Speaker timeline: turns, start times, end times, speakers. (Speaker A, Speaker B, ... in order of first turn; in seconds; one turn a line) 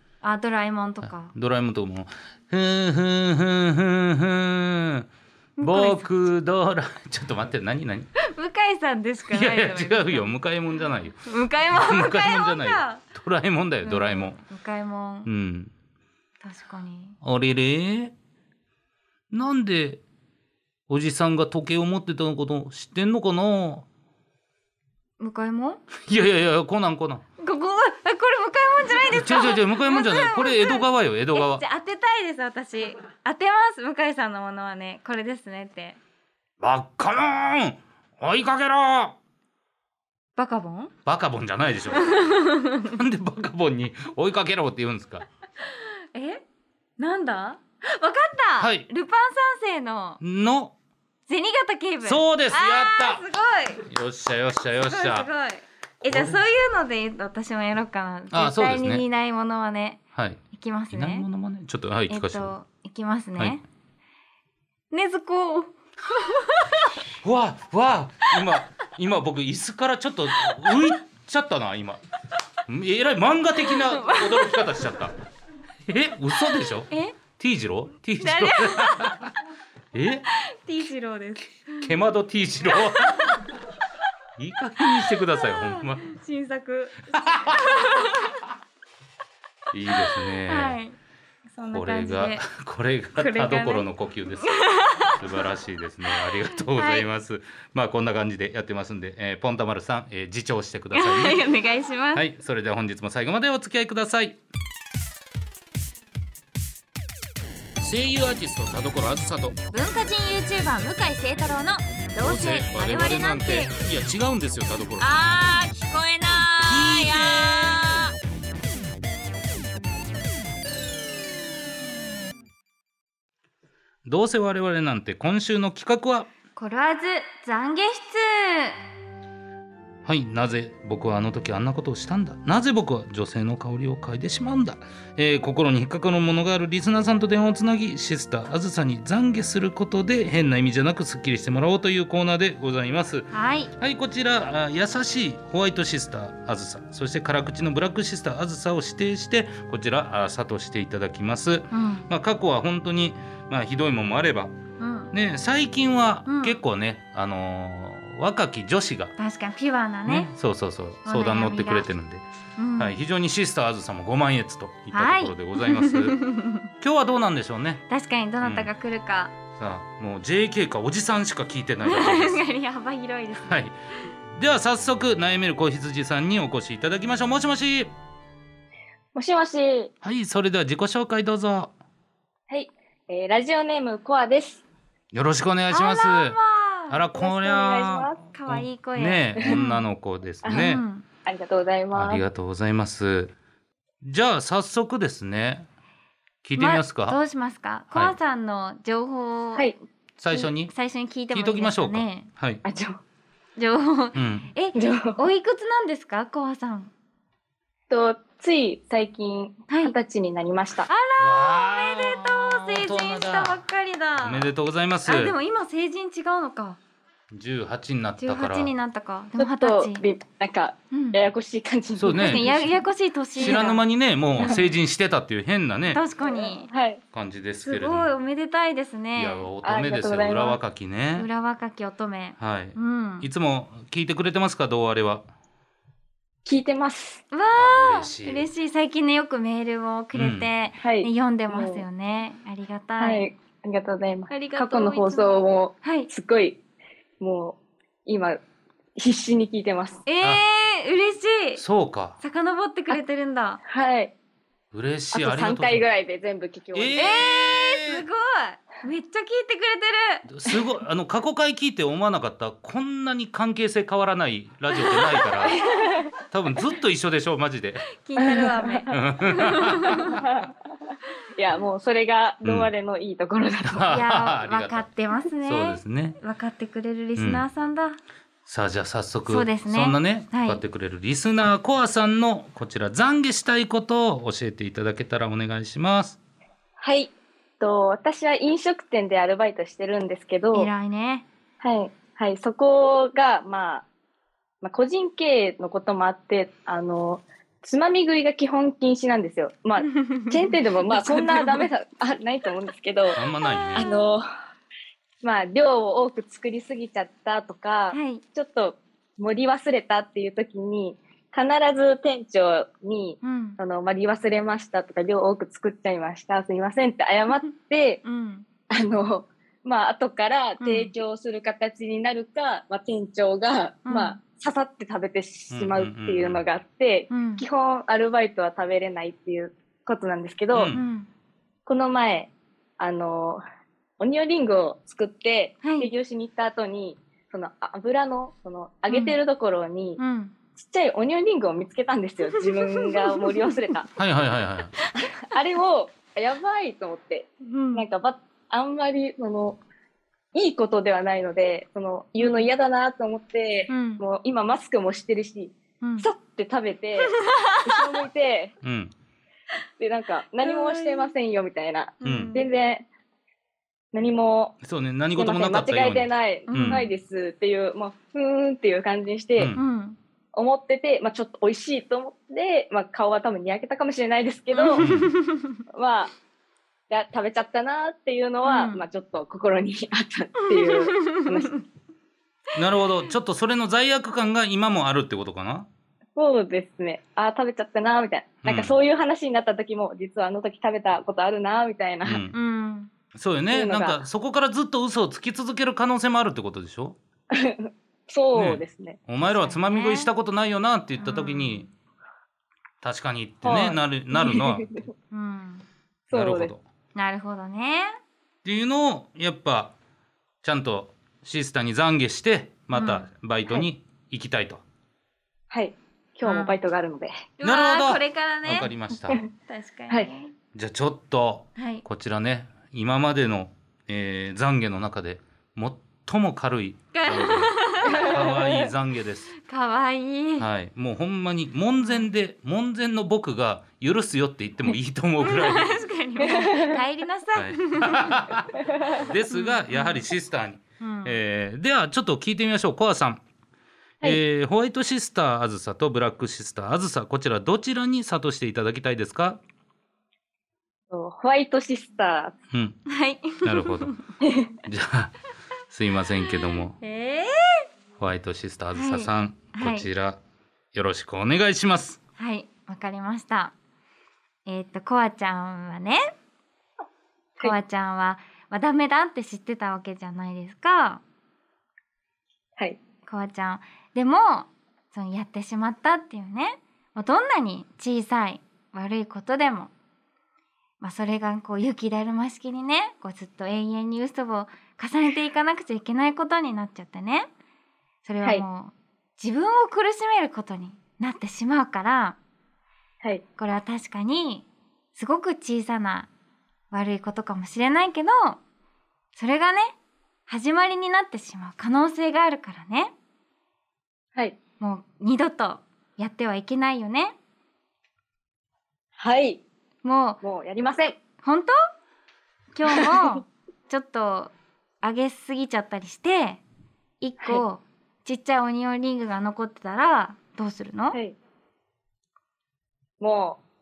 Speaker A: 0.2-1.3
Speaker B: 1.0-5.1
Speaker A: 5.6-6.2
Speaker B: 5.6-8.1
Speaker A: 8.2-10.3
Speaker B: 9.3-14.4
Speaker A: 11.2-13.0
Speaker A: 13.8-15.3
Speaker B: 15.2-15.7
Speaker A: 16.4-17.2
Speaker B: 17.2-18.1
Speaker B: 19.3-20.0
Speaker B: 20.9-23.9
Speaker A: 25.2-25.8
Speaker B: 26.1-27.2
Speaker A: 27.4-36.0
Speaker B: 29.1-31.6
Speaker B: 36.6-39.1
Speaker A: 40.4-40.9
Speaker B: 41.0-42.2
Speaker A: 41.9-42.9
Speaker B: 42.9-45.2
Speaker A: 45.6-46.4
Speaker A: 47.0-50.2
Speaker B: 48.6-48.9
Speaker B: 50.2-50.7
Speaker A: 51.3-53.9
Speaker B: 52.0-53.2
Speaker B: 53.8-55.3
Speaker A: 54.9-60.0
Speaker B: 56.0-56.4
Speaker B: 58.3-59.0
Speaker B: 60.1-62.5
Speaker A: 60.5-61.2
Speaker A: 62.1-63.6
Speaker A: 64.9-67.0
Speaker B: 67.2-72.0
Speaker B: 72.7-75.1
Speaker A: 73.7-74.6
Speaker B: 75.9-79.3
Speaker A: 76.9-77.2
Speaker A: 78.2-79.2
Speaker B: 79.9-80.2
Speaker A: 80.3-81.9
Speaker B: 81.8-83.3
Speaker A: 82.7-83.4
Speaker B: 84.4-86.1
Speaker A: 85.4-88.5
Speaker B: 89.7-90.8
Speaker A: 89.9-91.0
Speaker A: 91.5-92.4
Speaker B: 91.7-101.4
Speaker A: 93.2-93.9
Speaker A: 94.4-95.2
Speaker A: 96.1-97.0
Speaker A: 100.9-102.2
Speaker B: 102.1-104.4
Speaker B: 107.8-109.6
Speaker A: 109.7-113.7
Speaker B: 112.2-115.1
Speaker A: 115.0-118.1
Speaker B: 116.7-117.9
Speaker B: 124.0-126.3
Speaker A: 126.5-128.8
Speaker B: 130.0-154.5
Speaker A: 143.3-143.7
Speaker A: 151.7-152.1
Speaker A: 154.8-155.1
Speaker B: 155.1-159.1
Speaker A: 156.3-156.6
Speaker A: 159.2-160.3
Speaker B: 160.1-162.2
Speaker A: 161.0-161.9
Speaker A: 162.6-162.9
Speaker B: 162.8-166.2
Speaker A: 164.9-166.7
Speaker B: 166.8-167.8
Speaker A: 167.9-169.3
Speaker B: 168.4-168.7
Speaker B: 169.6-172.4
Speaker A: 171.8-173.7
Speaker B: 173.4-173.8
Speaker B: 174.3-177.9
Speaker C: 179.1-179.9
Speaker B: 180.0-181.7
Speaker C: 182.5-184.6
Speaker B: 185.1-186.4
Speaker A: 185.7-187.0
Speaker B: 186.9-190.8
Speaker C: 187.2-188.2
Speaker A: 188.3-189.9
Speaker C: 190.4-190.7
Speaker A: 190.5-191.0
Speaker C: 191.2-192.2
Speaker B: 191.9-193.3
Speaker B: 194.0-195.7
Speaker B: 196.4-197.2
Speaker A: 196.6-199.7
Speaker B: 200.2-200.7
Speaker A: 200.3-202.3
Speaker B: 201.3-202.6
Speaker C: 202.6-203.0
Speaker A: 203.6-206.9
Speaker B: 204.1-204.5
Speaker C: 204.7-205.2
Speaker C: 207.9-210.9
Speaker A: 209.7-209.9
Speaker A: 210.9-214.5
Speaker B: 211.2-213.6
Speaker B: 214.2-215.3
Speaker A: 215.0-216.8
Speaker B: 217.3-218.7
Speaker A: 218.2-220.0
Speaker C: 219.4-222.8
Speaker A: 220.9-221.2
Speaker B: 221.9-222.5
Speaker A: 222.1-223.8
Speaker C: 223.3-223.7
Speaker B: 223.3-226.0
Speaker C: 224.4-224.7
Speaker A: 225.9-226.7
Speaker C: 226.2-227.0
Speaker B: 227.1-228.1
Speaker A: 227.6-229.5
Speaker B: 229.1-231.3
Speaker C: 229.6-230.6
Speaker A: 231.2-233.3
Speaker B: 232.4-235.3
Speaker C: 236.4-237.2
Speaker A: 237.3-243.2
Speaker B: 237.5-238.5
Speaker B: 240.1-240.5
Speaker C: 240.8-241.8
Speaker C: 243.0-246.6
Speaker A: 244.3-246.1
Speaker C: 247.2-248.4
Speaker C: 249.0-250.0
Speaker A: 250.1-251.6
Speaker B: 251.6-252.2
Speaker A: 252.2-253.6
Speaker C: 253.6-254.1
Speaker B: 254.7-255.9
Speaker C: 255.1-257.2
Speaker B: 256.7-258.0
Speaker A: 256.9-260.2
Speaker B: 260.3-265.6
Speaker A: 264.9-265.4
Speaker C: 265.4-266.1
Speaker B: 266.2-267.9
Speaker A: 268.0-270.2
Speaker C: 268.2-268.9
Speaker B: 268.9-270.2
Speaker C: 270.1-270.5
Speaker C: 271.4-273.9
Speaker B: 272.4-272.7
Speaker B: 273.7-274.9
Speaker A: 273.9-278.0
Speaker B: 275.4-276.2
Speaker B: 277.1-277.4
Speaker B: 278.4-286.2
Speaker A: 279.2-280.6
Speaker C: 286.8-290.7
Speaker A: 290.5-291.2
Speaker C: 291.6-293.9
Speaker C: 294.6-303.2
Speaker A: 299.9-301.7
Speaker B: 303.1-303.9
Speaker A: 303.2-303.9
Speaker C: 303.8-304.2
Speaker C: 305.2-318.0
Speaker A: 307.9-308.2
Speaker A: 313.2-313.6
Speaker A: 318.0-318.5
Speaker C: 318.7-330.7
Speaker A: 320.6-320.9
Speaker A: 323.9-324.2
Speaker B: 325.5-326.4
Speaker A: 327.1-327.4
Speaker B: 330.5-330.8
Speaker A: 330.7-331.1
Speaker C: 331.6-333.4
Speaker C: 334.0-340.0
Speaker A: 335.6-335.9
Speaker A: 338.9-339.2
Speaker A: 340.0-340.3
Speaker C: 340.6-343.9
Speaker A: 342.2-343.7
Speaker B: 344.0-344.7
Speaker C: 345.0-349.6
Speaker A: 347.4-347.9
Speaker C: 350.3-358.5
Speaker A: 352.2-352.4
Speaker A: 353.7-354.0
Speaker A: 355.8-356.1
Speaker A: 357.2-357.6
Speaker B: 358.6-358.9
Speaker C: 359.8-362.9
Speaker A: 360.4-361.1
Speaker A: 362.0-362.4
Speaker B: 362.0-362.4
Speaker C: 363.9-364.5
Speaker B: 364.6-366.9
Speaker C: 365.1-369.5
Speaker A: 366.5-366.9
Speaker B: 369.4-369.6
Speaker A: 369.5-370.0
Speaker C: 370.3-374.8
Speaker A: 374.5-375.6
Speaker B: 374.8-375.1
Speaker C: 375.7-376.1
Speaker C: 376.9-381.5
Speaker A: 378.4-378.8
Speaker A: 380.5-381.6
Speaker B: 382.5-385.7
Speaker C: 386.1-392.2
Speaker B: 388.4-388.7
Speaker B: 392.0-392.3
Speaker A: 392.3-392.9
Speaker B: 393.1-397.0
Speaker C: 393.5-394.0
Speaker C: 397.3-399.0
Speaker B: 398.3-401.7
Speaker A: 399.2-400.1
Speaker A: 401.0-401.7
Speaker B: 402.8-404.8
Speaker C: 403.4-404.9
Speaker A: 405.1-405.6
Speaker C: 406.1-406.5
Speaker B: 406.1-406.6
Speaker A: 406.9-407.9
Speaker B: 408.4-409.7
Speaker B: 410.4-414.6
Speaker A: 412.7-413.1
Speaker C: 415.5-417.2
Speaker A: 416.2-416.6
Speaker A: 417.4-418.7
Speaker B: 417.4-419.2
Speaker A: 419.5-420.3
Speaker B: 420.5-429.3
Speaker A: 421.6-421.8
Speaker A: 426.9-428.2
Speaker C: 427.8-428.7
Speaker A: 429.4-430.5
Speaker B: 430.4-435.8
Speaker A: 431.8-432.1
Speaker A: 435.2-438.2
Speaker C: 436.2-436.8
Speaker B: 437.3-443.2
Speaker C: 438.6-438.9
Speaker A: 439.3-440.0
Speaker A: 440.8-441.2
Speaker B: 444.0-449.4
Speaker C: 450.9-452.3
Speaker B: 452.5-452.8
Speaker A: 452.9-454.0
Speaker B: 453.4-453.9
Speaker C: 454.2-454.5
Speaker B: 454.6-455.1
Speaker B: 455.7-456.8
Speaker A: 456.8-457.6
Speaker B: 458.0-460.2
Speaker A: 458.7-459.9
Speaker B: 460.7-462.0
Speaker A: 462.2-463.5
Speaker A: 464.4-466.0
Speaker A: 467.4-471.0
Speaker A: 473.1-479.7
Speaker A: 480.8-487.3
Speaker A: 488.0-492.2
Speaker A: 493.4-496.1
Speaker A: 496.7-498.4
Speaker A: 499.1-499.7
Speaker A: 500.3-502.9
Speaker A: 504.6-507.1
Speaker C: 509.0-509.4
Speaker A: 509.8-510.2
Speaker C: 510.2-510.9
Speaker A: 511.2-511.5
Speaker A: 512.5-516.4
Speaker A: 517.0-521.0
Speaker C: 523.0-523.4